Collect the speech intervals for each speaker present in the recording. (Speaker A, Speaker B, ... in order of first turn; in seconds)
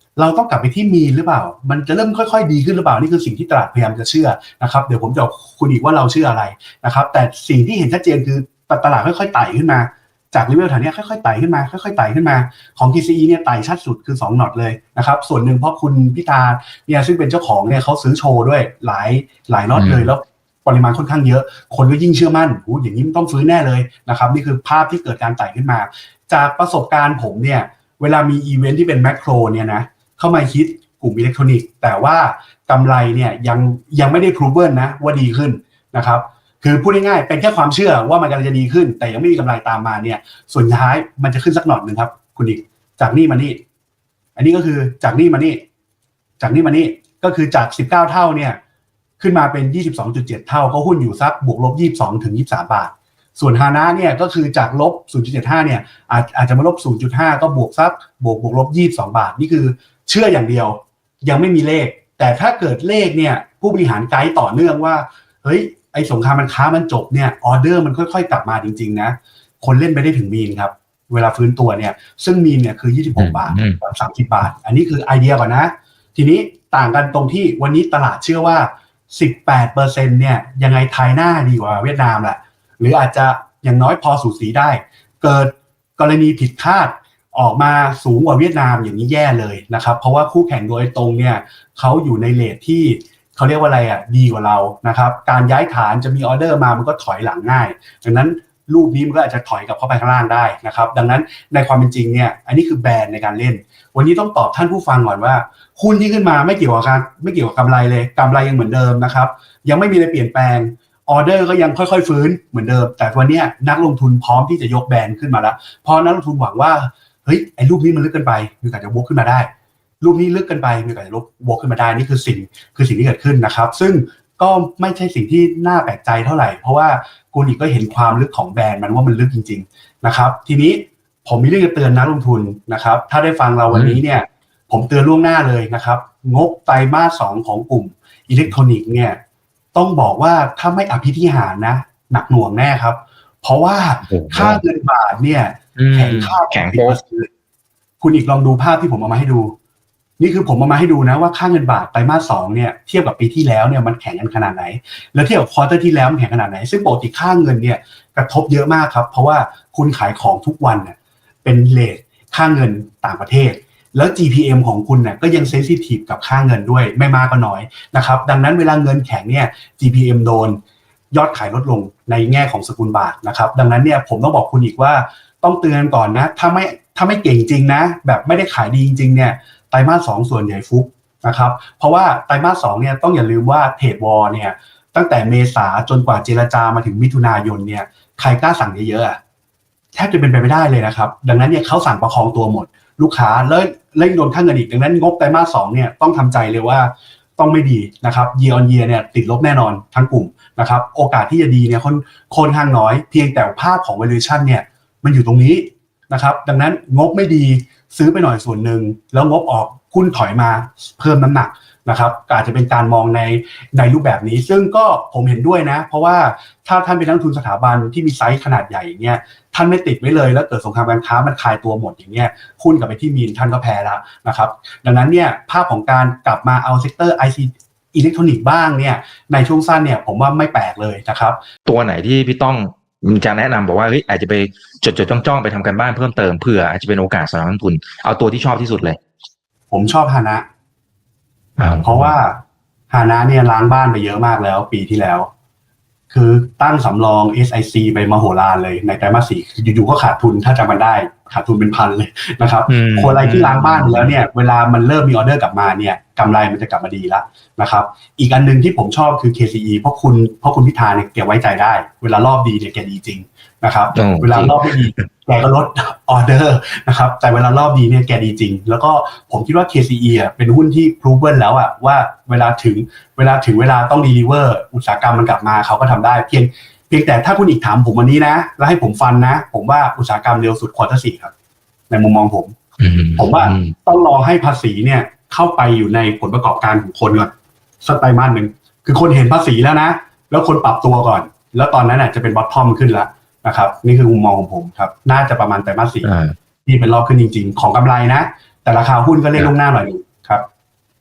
Speaker A: 0.1-43.6, 44.4-45.6, 46.4-48.6, 49.2-119.5, 120.0-139.2, 139.7-147.3, 148.0-149.5, 150.2-170.6, 171.1-189.2, 189.9-231.4, 239.7-240.4, 241.8-245.3, 246.1-281.3, 281.9-282.6, 283.1-287.3, 287.8-296.1, 296.6-300.4
Speaker B: 19.7-20.1, 73.2-73.8, 133.7-134.0, 144.0-144.6, 145.8-147.0, 231.7-239.0, 241.6-242.2, 252.7-254.1, 263.9-265.1, 282.8-283.7, 296.0-296.4